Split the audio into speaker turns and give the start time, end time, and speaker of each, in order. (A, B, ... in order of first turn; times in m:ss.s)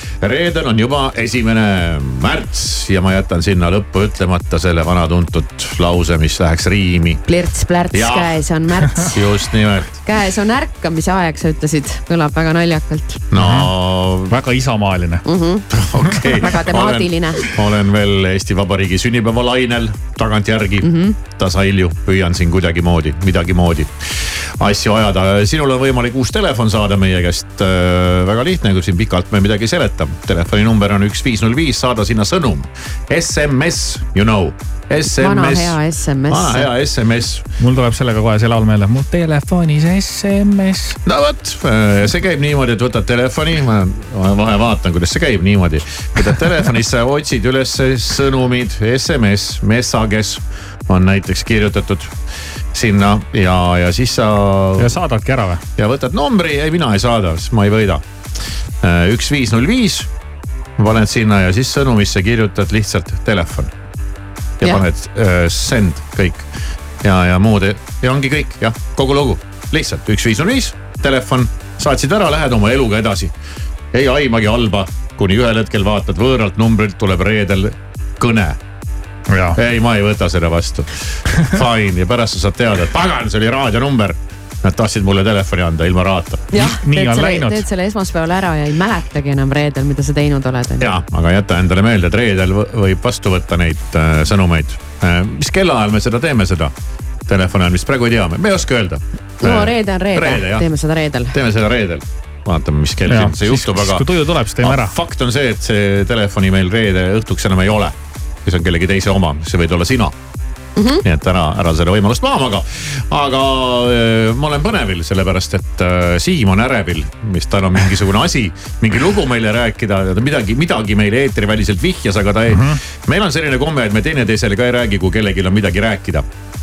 0:00.2-0:07.2 A
0:07.3-0:09.1 B
0:07.9-0:08.3 A
0:09.1-0:10.0 A
0:10.0-0:13.2 B
0:13.3-0:14.3 A
0:13.3-0:13.7 C
0:14.3-0:15.2 C
0:15.2-0:15.6 B
0:15.7-0:35.7 A
0:16.1-0:16.4 C
0:16.4-0:17.5 B
0:20.8-0:21.2 B
0:35.2-0:36.7 B
0:36.3-0:37.4 A
0:37.6-0:41.0 C
0:41.0-0:52.1 A
0:52.7-0:54.9 A
0:54.8-0:55.6 C
0:55.8-0:58.0 A
0:58.8-1:00.1 A
1:00.8-1:03.7 A
1:04.6-1:06.5 A
1:07.0-1:13.3 A
1:13.9-1:18.6 A
1:19.3-1:19.6 C
1:19.6-1:26.5 A
1:26.5-1:31.0 B
1:26.5-1:27.6 C
1:30.8-1:36.7 A
1:37.3-1:40.6 A
1:39.4-1:41.3 B
1:41.3-1:44.0 A
1:43.1-1:44.9 C
1:44.6-1:50.1 A
1:50.8-1:51.0 B
1:51.0-2:06.2 A
2:02.5-2:02.8 C